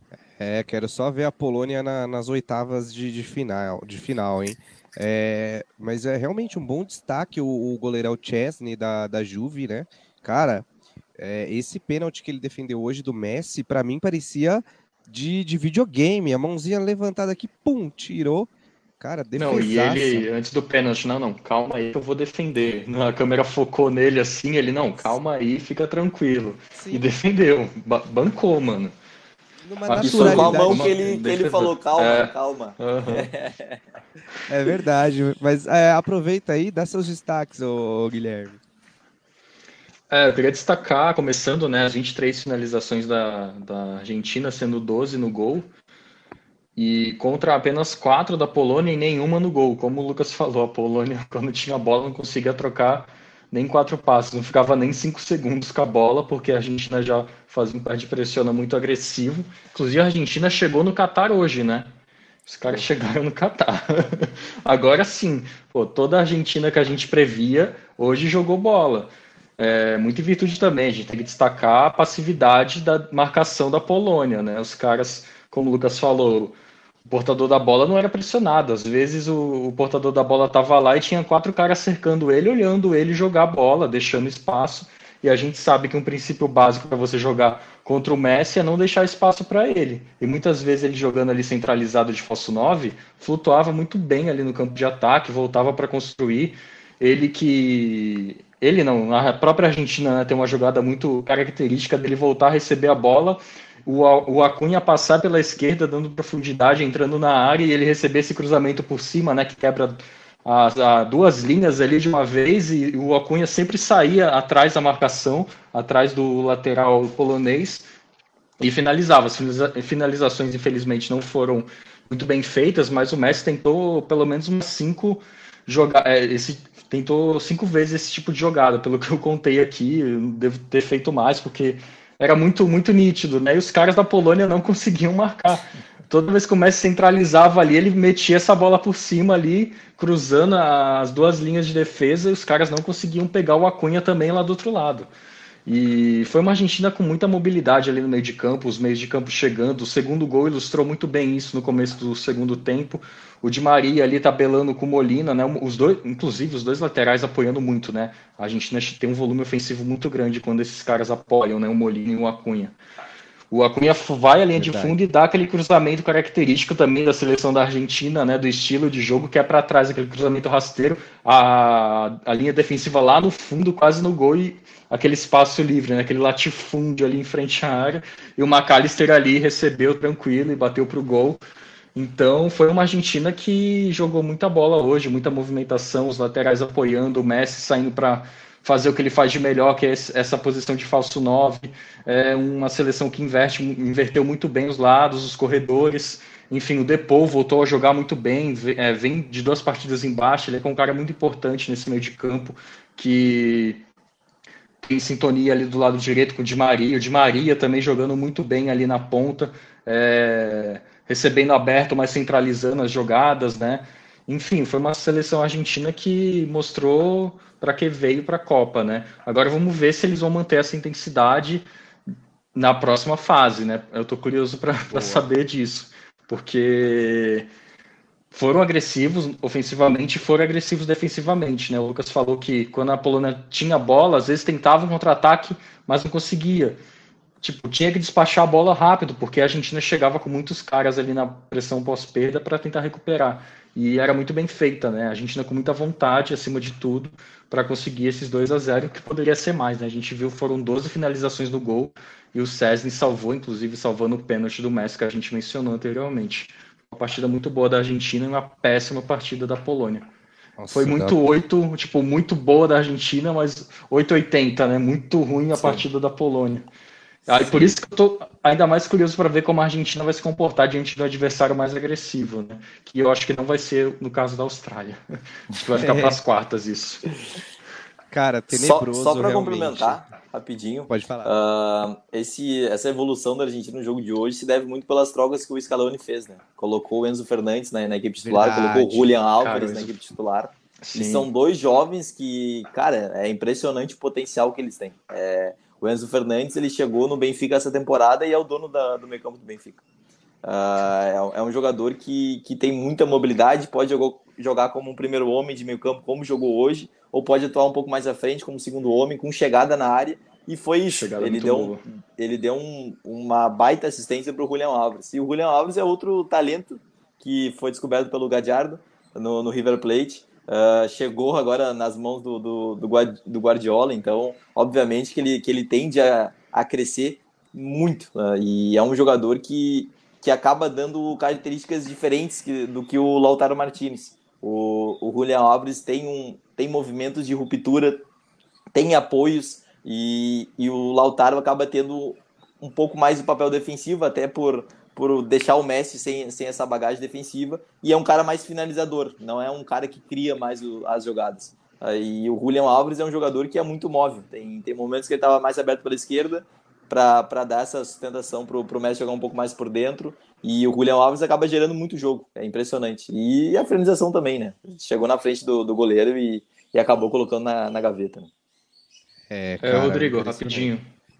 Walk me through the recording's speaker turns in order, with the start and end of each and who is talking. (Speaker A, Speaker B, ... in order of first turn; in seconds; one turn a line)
Speaker A: 0.4-10.7
Speaker A: 11.2-20.3
Speaker B: 19.4-28.9
Speaker A: 26.7-27.1
Speaker A: 29.6-31.0
Speaker B: 29.9-33.3
Speaker C: 30.0-33.8
Speaker A: 34.5-38.6
Speaker B: 40.1-45.7
Speaker B: 46.8-61.9
Speaker B: 62.5-76.5
Speaker B: 77.1-117.9
Speaker B: 118.6-145.1
Speaker B: 145.7-162.7
Speaker B: 163.5-181.4
Speaker A: 164.6-165.0
Speaker B: 181.9-203.8
Speaker B: 204.8-221.7
Speaker B: 222.5-227.5
Speaker A: 224.9-225.2
Speaker B: 228.3-236.8
Speaker B: 237.4-260.1
Speaker A: 260.6-261.2
Speaker B: 260.7-266.7
Speaker A: 265.6-265.8
Speaker A: 267.3-267.7
Speaker B: 267.3-275.0
Speaker B: 275.5-277.0
Speaker A: 275.8-276.2
Speaker A: 278.1-280.1
Speaker C: 278.5-299.8
Speaker A: 280.9-281.3
Speaker A: 288.2-289.1
Speaker B: 289.4-289.9
Speaker B: 290.8-291.3
Speaker C: 300.4-338.1
Speaker B: 310.9-311.8
Speaker C: 338.7-368.3
Speaker A: 369.3-370.7
Speaker B: 369.6-370.9